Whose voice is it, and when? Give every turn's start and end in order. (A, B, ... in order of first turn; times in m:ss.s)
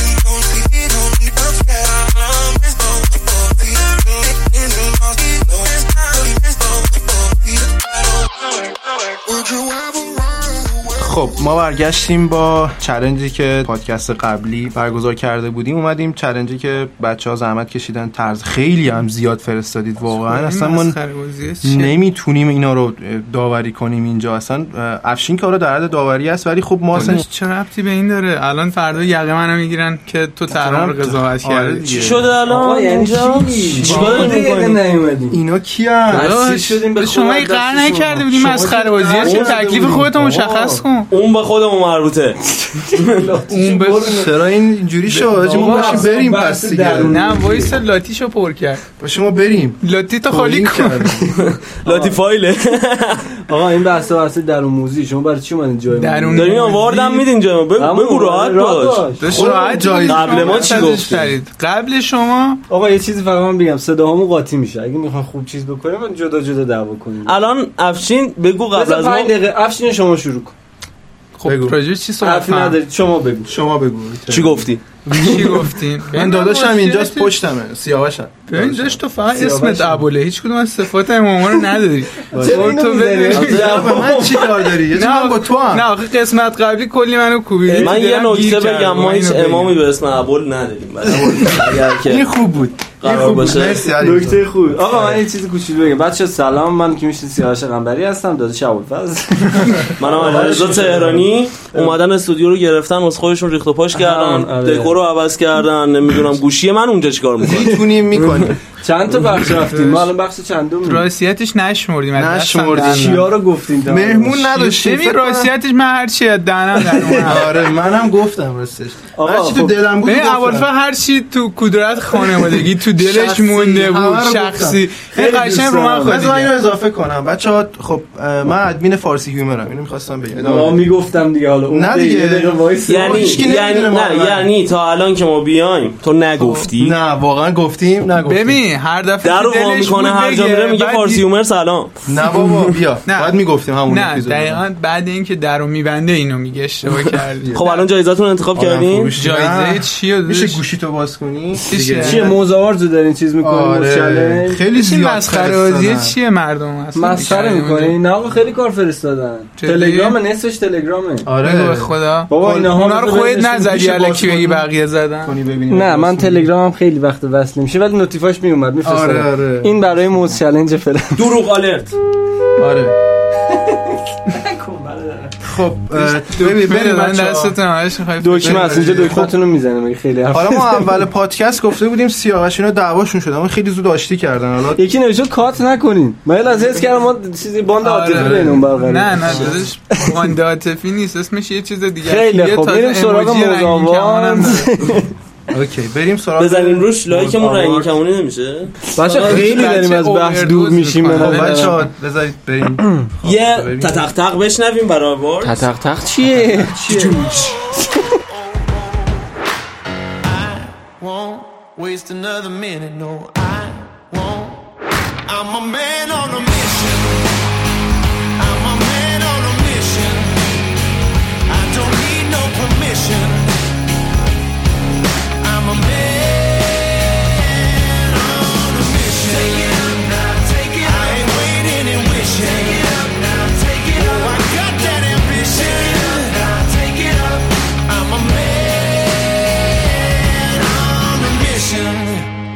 0:10.9-0:21.0 A
0:20.1-0:22.0 B
0:21.6-0:27.2 A
0:26.9-0:31.9 B
0:30.5-0:32.3 A
0:31.9-0:34.8 C
0:32.5-0:35.4 D
0:33.8-0:34.3 A
0:33.8-0:34.4 B
0:35.3-0:36.3 A
0:36.1-0:39.4 D
0:36.1-0:41.1 B
0:38.3-0:40.8 A
0:39.2-0:39.6 C
0:40.2-0:40.7 D
0:41.1-0:42.4 C
0:42.5-0:44.3 D
0:42.9-0:43.2 C
0:43.5-0:44.2 B
0:44.0-0:47.2 A
0:45.1-0:46.0 B
0:45.2-0:47.8 D
0:47.0-0:48.8 B
0:49.0-0:51.3 A
0:49.8-0:51.2 B
0:51.4-0:53.3 C
0:51.8-0:52.2 D
0:53.5-0:56.6 D
0:55.9-0:57.2 B
0:56.3-0:59.1 C
0:57.8-0:59.4 D
0:59.2-1:02.6 B
0:59.3-1:01.0 A
1:00.1-1:01.3 C
1:00.5-1:01.0 D
1:02.7-1:07.4 D
1:07.2-1:09.3 C
1:08.7-1:10.5 D
1:11.4-1:12.8 B
1:11.4-1:11.8 A
1:12.2-1:13.5 D
1:13.5-1:19.0 A
1:14.3-1:14.8 C
1:15.1-1:17.4 B
1:15.3-1:15.6 D
1:18.5-1:24.1 B
1:19.4-1:20.0 D
1:22.3-1:24.6 D
1:22.3-1:25.9 A
1:24.9-1:29.8 B
1:27.6-1:28.0 D
1:27.8-1:32.3 C
1:31.1-1:35.2 A
1:33.0-1:33.9 C
1:33.9-1:42.0 D
1:40.0-1:48.4 C
1:43.9-1:45.0 D
1:47.4-1:48.6 A
1:48.8-1:51.0 D
1:49.7-1:50.1 B
1:50.8-1:53.3 B
1:52.1-1:53.3 A
1:52.8-1:54.5 D
1:53.8-1:55.5 A
1:54.5-1:57.6 B
1:56.8-1:57.3 D
1:57.2-2:00.7 A
1:59.2-1:59.7 D
2:00.0-2:06.5 B
2:03.0-2:04.8 A
2:05.1-2:06.2 D
2:06.0-2:10.8 A
2:10.4-2:13.4 D
2:11.7-2:14.5 A
2:12.8-2:17.0 C
2:16.4-2:16.6 B
2:16.8-2:18.6 A
2:18.2-2:21.2 B
2:19.2-2:22.0 C
2:22.0-2:24.6 A
2:23.0-2:27.8 B
2:27.0-2:27.6 A
2:27.5-2:29.1 C
2:28.6-2:32.4 A
2:29.2-2:30.6 B
2:31.7-2:32.3 B
2:32.0-2:34.6 D
2:33.4-2:36.2 A
2:34.7-2:38.0 B
2:36.9-2:41.3 D
2:39.6-2:40.2 B
2:41.2-2:42.9 A
2:41.4-2:45.4 B
2:42.3-2:43.7 D
2:43.5-2:44.7 A
2:45.2-2:46.5 A
2:45.7-2:51.4 D
2:48.8-2:49.8 A
2:51.2-2:52.0 C
2:52.6-2:52.9 A
2:53.3-2:55.3 D
2:55.4-2:57.6 A
2:55.9-2:59.2 B
2:58.2-3:01.0 D
2:58.4-2:59.4 A
3:00.3-3:04.8 A
3:04.8-3:10.3 D
3:07.8-3:14.7 B
3:08.1-3:08.6 A
3:12.0-3:15.1 D
3:15.5-3:17.9 A
3:16.4-3:19.8 C
3:18.9-3:21.8 D
3:19.2-3:21.9 B
3:21.0-3:24.1 A
3:23.2-3:25.6 C
3:25.4-3:27.2 D
3:26.2-3:27.6 A
3:27.1-3:29.1 E
3:30.2-3:34.7 E
3:35.3-3:37.3 E
3:38.4-3:40.6 E
3:41.5-3:43.6 E
3:45.4-4:02.3 E